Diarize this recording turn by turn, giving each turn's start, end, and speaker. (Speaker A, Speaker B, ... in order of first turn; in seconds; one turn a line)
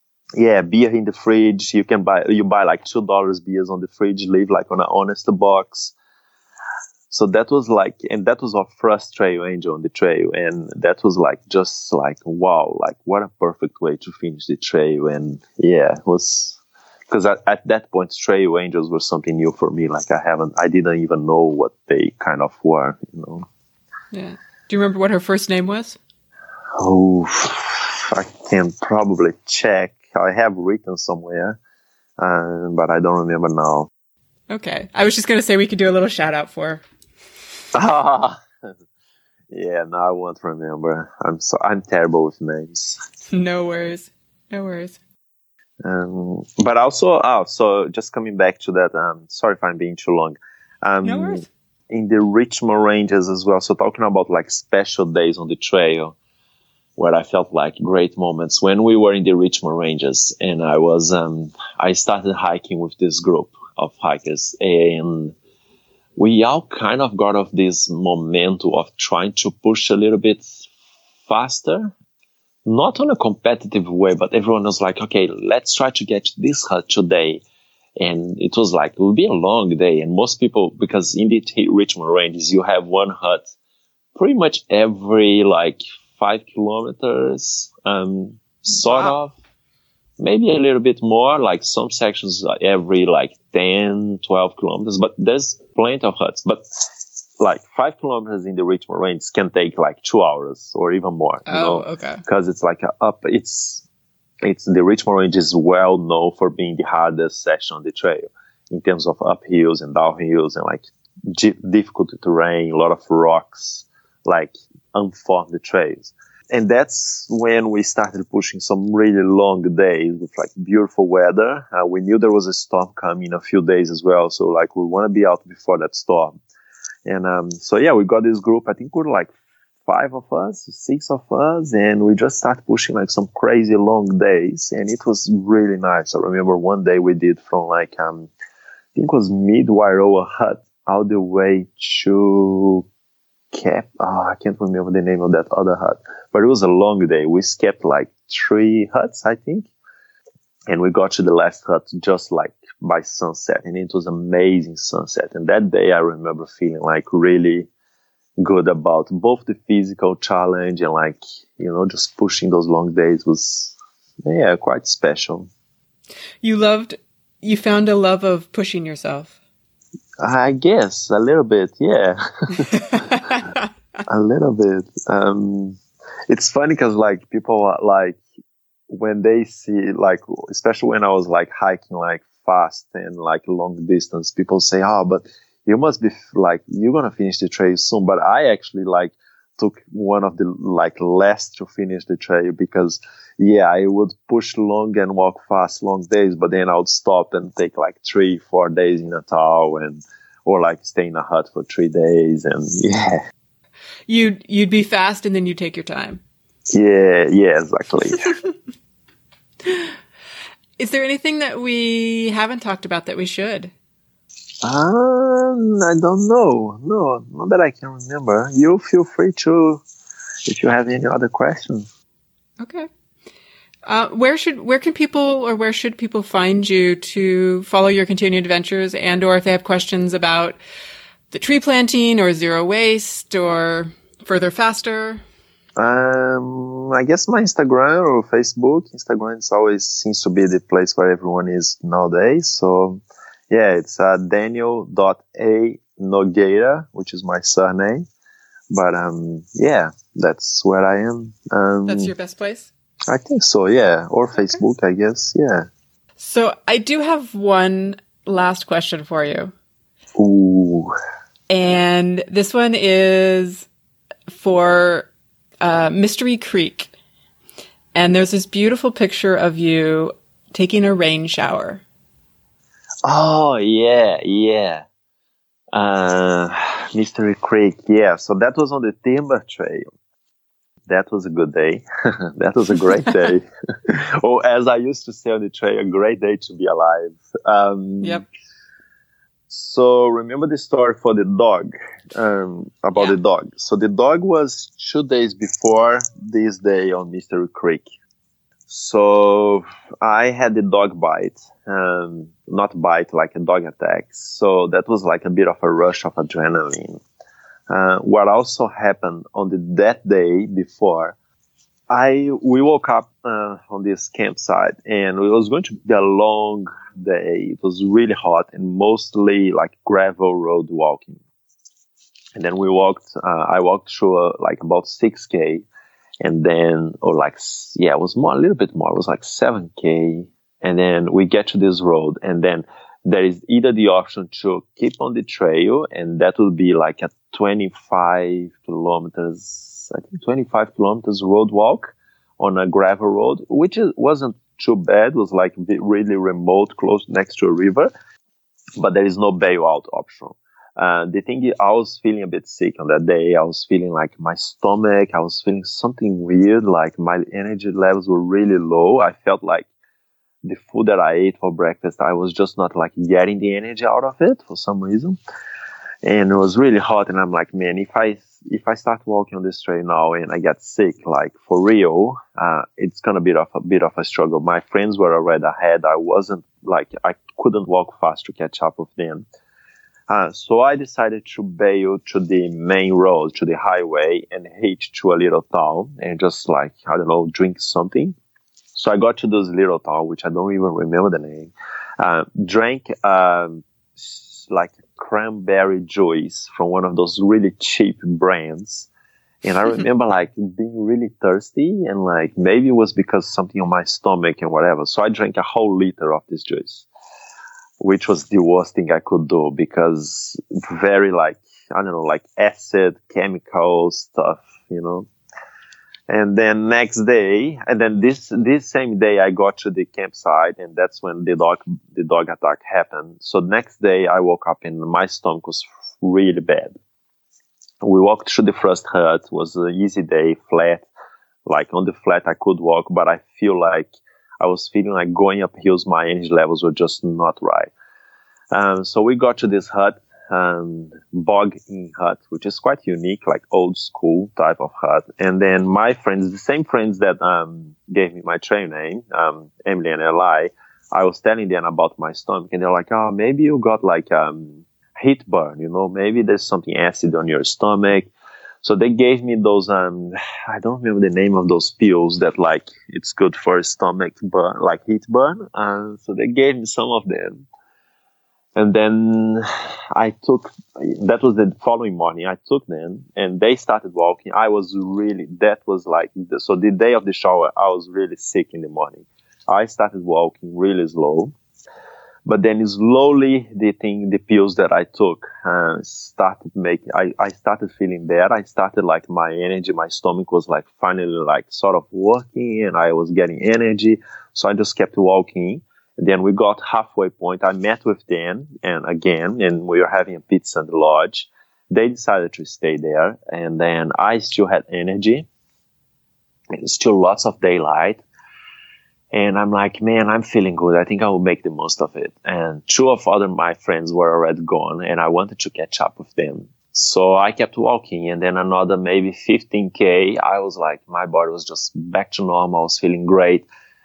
Speaker A: 0.4-5.9
Speaker A: 7.1-23.5
Speaker B: 24.1-26.0
Speaker A: 26.8-31.6
Speaker A: 32.2-33.9
Speaker B: 34.5-36.8
Speaker A: 37.7-38.4
Speaker A: 39.5-43.0
Speaker B: 43.3-45.0
Speaker A: 45.8-56.1
Speaker B: 51.0-51.5
Speaker A: 57.0-65.3
Speaker A: 66.2-70.7
Speaker A: 71.3-71.9
Speaker A: 72.7-77.4
Speaker A: 78.0-83.4
Speaker A: 84.2-89.4
Speaker A: 90.2-96.6
Speaker A: 97.4-103.8
Speaker B: 101.5-102.2
Speaker A: 104.4-126.3
Speaker A: 127.1-129.3
Speaker A: 129.9-138.3
Speaker A: 138.9-142.9
Speaker A: 143.5-149.7
Speaker A: 150.7-157.7
Speaker A: 158.4-163.8
Speaker A: 164.3-165.5
Speaker B: 166.4-169.3
Speaker A: 170.2-173.5
Speaker A: 174.1-175.8
Speaker A: 176.3-178.2
Speaker A: 178.9-203.2
Speaker B: 204.1-206.2
Speaker A: 206.7-208.3
Speaker B: 209.6-209.9
Speaker B: 210.8-213.7
Speaker A: 214.6-219.8
Speaker A: 220.5-221.9
Speaker B: 222.6-222.9
Speaker B: 223.9-230.6
Speaker B: 231.3-235.2
Speaker A: 235.8-248.1
Speaker A: 248.7-252.1
Speaker B: 251.9-252.7
Speaker A: 253.1-255.7
Speaker B: 256.2-259.5
Speaker A: 260.2-260.9
Speaker B: 261.5-263.7
Speaker B: 264.3-265.1
Speaker B: 265.6-266.9
Speaker B: 267.9-271.8
Speaker A: 273.0-274.9
Speaker A: 275.7-279.9
Speaker A: 280.9-288.2
Speaker A: 289.5-297.8
Speaker A: 298.7-307.0
Speaker A: 307.7-311.1
Speaker A: 311.9-321.2
Speaker A: 322.4-325.6
Speaker A: 326.2-347.9
Speaker A: 348.8-359.7
Speaker A: 360.4-365.2
Speaker A: 366.0-379.2
Speaker A: 380.1-388.1
Speaker A: 388.8-398.9
Speaker A: 399.4-406.9
Speaker A: 407.8-415.1
Speaker A: 416.1-426.7
Speaker A: 427.8-430.9
Speaker A: 431.5-437.7
Speaker A: 438.5-458.1
Speaker A: 458.6-467.5
Speaker A: 468.6-469.4
Speaker A: 469.9-481.3
Speaker A: 482.3-505.3
Speaker A: 506.5-508.0
Speaker A: 509.1-523.5